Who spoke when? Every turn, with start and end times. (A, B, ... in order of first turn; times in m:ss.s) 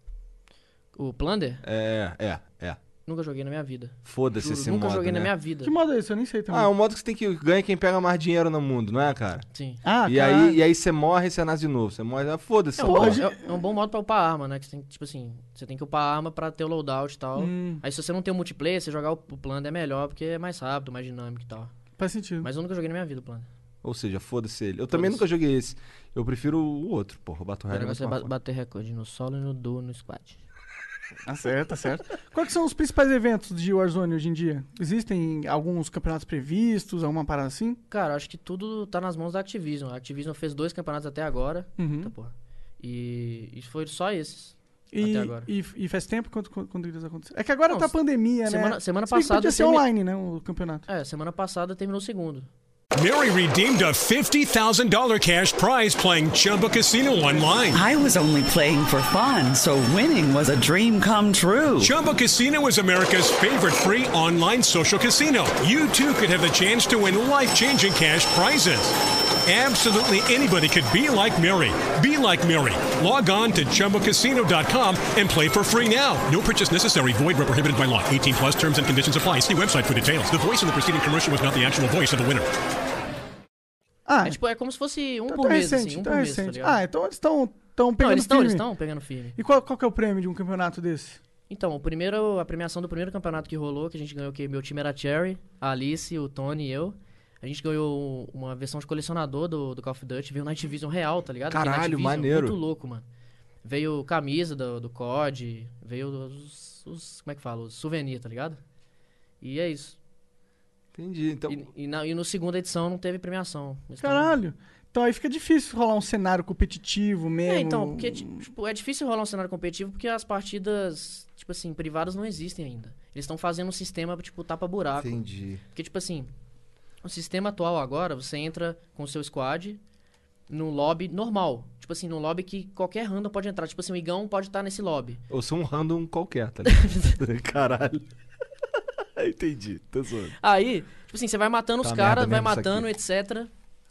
0:01.0-0:01.6 A
0:01.6-0:02.8 B
0:03.1-0:05.7 A
0:04.0-0:05.3 B
0:05.6-0:06.7 C
0:06.5-0:09.5 B
0:09.5-0:09.8 A
0:09.8-0:10.6 C
0:10.1-0:13.2 B
0:12.8-0:21.7 A
0:12.8-0:13.6 C
0:17.4-0:17.8 C
0:22.0-0:22.5 C
0:22.4-0:23.5 A
0:23.8-0:28.3 B
0:24.9-0:25.2 A
0:27.7-0:30.4 A
0:31.2-0:37.8 C
0:37.9-0:45.5 A
0:41.8-0:42.1 C
0:44.9-0:50.8 C
0:47.7-0:47.9 A
0:48.4-0:49.8 A
0:50.9-0:52.5 A
0:53.0-0:57.8 D
0:57.7-1:02.0 E
1:01.8-1:22.5 D
1:24.1-1:24.4 C
1:24.2-1:26.8 A
1:25.3-1:28.7 C
1:28.0-1:29.4 A
1:29.4-1:31.2 C
1:31.5-1:43.1 A
1:41.5-1:42.6 B
1:43.6-1:48.6 A
1:49.4-1:50.0 A
1:51.0-1:51.6 B
1:51.5-1:54.4 A
1:54.0-1:58.5 C
1:57.4-2:05.2 A
2:05.0-2:05.6 B
2:05.7-2:06.3 A
2:07.0-2:09.8 A
2:10.5-2:15.2 A
2:15.3-2:18.0 B
2:19.2-2:20.4 B
2:20.4-2:23.5 A
2:21.8-2:22.9 B